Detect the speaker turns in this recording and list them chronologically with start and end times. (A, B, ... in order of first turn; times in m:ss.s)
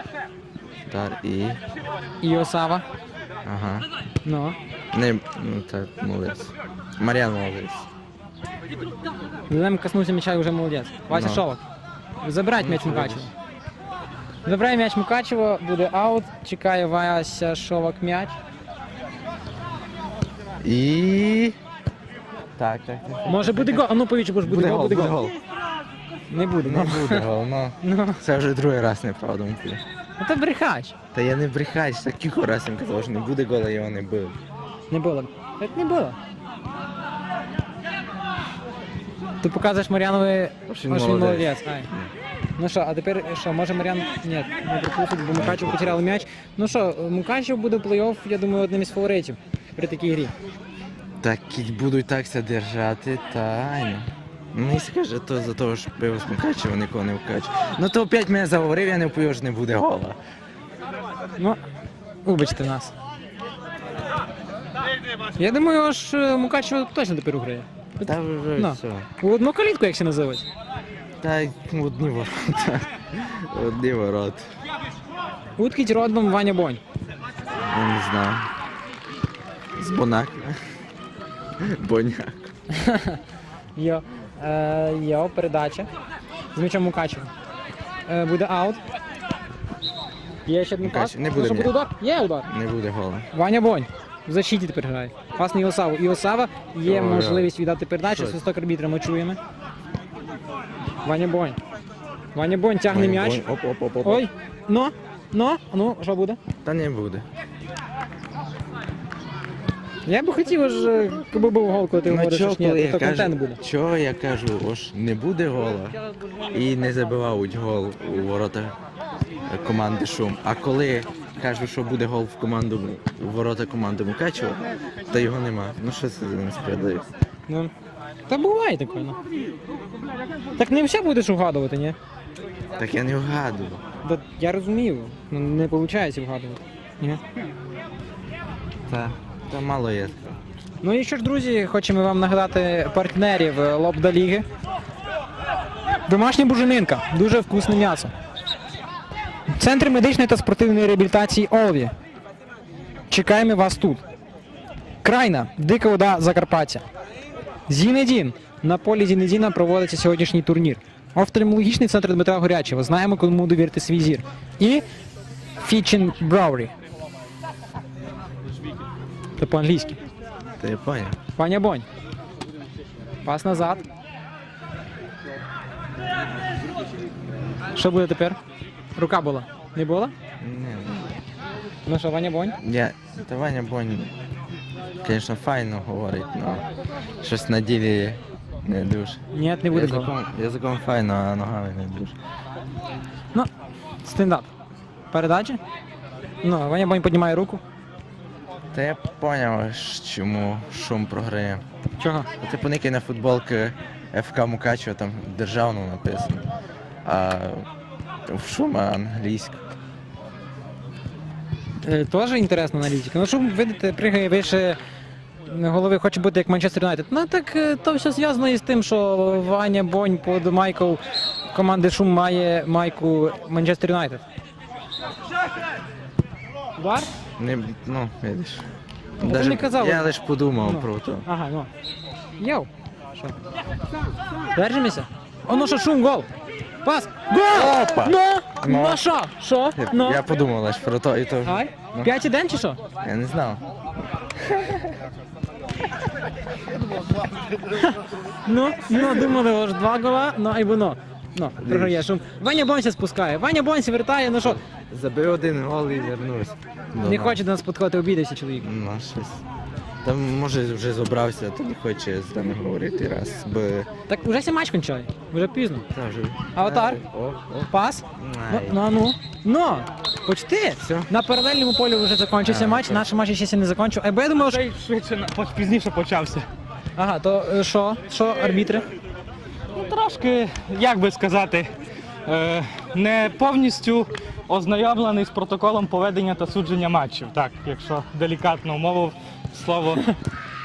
0:00.9-0:01.6 A
0:02.2-0:02.8 B
0:03.4-0:03.9 A
0:04.2-0:04.6 B
0:04.9-0:07.9 A
0:09.5-0:11.6 B
0:11.1-0:11.4 A
0:12.2-0:13.3 B
0:12.6-0:13.3 A
0:14.4-0:18.4 B
0:20.6-0:21.6 A
0:22.6-0:23.9 A
0:23.3-0:25.2 B
0:24.4-0:25.4 A
0:26.3-0:27.3 B
0:26.6-0:29.8 A
0:27.8-0:28.2 B
0:30.2-0:31.0 B
0:31.1-0:34.4 A
0:34.9-0:36.2 B
0:39.4-0:41.9 B
0:40.7-0:42.1 A
0:42.6-0:50.3 B
0:45.3-0:46.0 A
0:51.2-1:00.2 A
1:02.2-1:02.9 B
1:05.4-1:07.7 B
1:08.0-1:09.1 A
1:08.6-1:10.5 B
1:11.2-1:14.5 A
1:15.6-1:16.8 B
1:17.6-1:18.5 A
1:19.8-1:20.6 A
1:21.6-1:22.5 A
1:22.7-1:23.2 B
1:23.8-1:25.9 B
1:26.6-1:27.3 B
1:28.1-1:28.8 B
1:30.5-1:32.5 B
1:30.8-1:31.8 A
1:32.5-1:33.3 A
1:33.3-1:39.4 B
1:36.8-1:37.5 A
1:38.1-1:38.4 A
1:41.0-1:41.6 B
1:42.4-1:43.4 B
1:42.9-1:44.3 A
1:44.0-1:46.4 B
1:46.6-1:47.3 A
1:50.1-1:53.6 B
1:52.1-1:58.8 A
1:59.5-2:07.1 A
2:08.3-2:09.2 B
2:10.6-2:12.0 B
2:12.8-2:13.8 A
2:14.0-2:17.2 B
2:18.9-2:20.3 A
2:20.8-2:24.5 B
2:26.1-2:28.1 B
2:29.5-2:31.9 B
2:33.1-2:34.0 B
2:35.0-2:36.8 B
2:37.7-2:44.8 B
2:45.6-2:46.7 B
2:49.4-2:50.0 B
2:50.6-2:51.2 A
2:51.4-2:51.9 B
2:53.2-2:53.8 B
2:57.7-2:58.4 B
2:59.0-3:00.1 B
3:00.4-3:01.2 A
3:01.9-3:02.6 B
3:02.6-3:04.1 A
3:05.0-3:06.7 A
3:07.2-3:12.2 A
3:09.3-3:10.1 B
3:14.0-3:14.5 B
3:15.1-3:15.6 B
3:16.4-3:17.6 B
3:18.7-3:21.6 A
3:22.0-3:22.3 B
3:22.4-3:26.5 A
3:27.0-3:27.7 A
3:28.3-3:29.7 A
3:31.8-3:34.8 B
3:35.5-3:41.0 B
3:41.5-3:44.2 B
3:46.8-3:47.1 B
3:47.4-3:48.7 A
3:49.2-3:51.3 A
3:49.2-3:50.1 B
3:50.6-3:51.7 B
3:52.4-3:53.4 B
3:54.6-3:56.3 B
3:56.8-4:00.2 B
3:57.3-3:59.0 A
3:59.8-4:02.1 A
4:01.4-4:02.8 B
4:03.0-4:03.7 A
4:04.4-4:05.0 A
4:06.8-4:07.9 A
4:07.8-4:14.6 B
4:11.6-4:12.1 A
4:14.4-4:17.4 A
4:17.0-4:18.7 B
4:18.6-4:19.4 A
4:20.0-4:23.9 A
4:24.1-4:25.9 B
4:25.9-4:28.8 A
4:26.5-4:27.0 B
4:27.7-4:34.6 B
4:30.8-4:31.1 A
4:32.4-4:33.1 A
4:34.4-4:36.5 C
4:37.0-4:38.8 B
4:39.7-4:41.7 C
4:42.3-4:50.1 C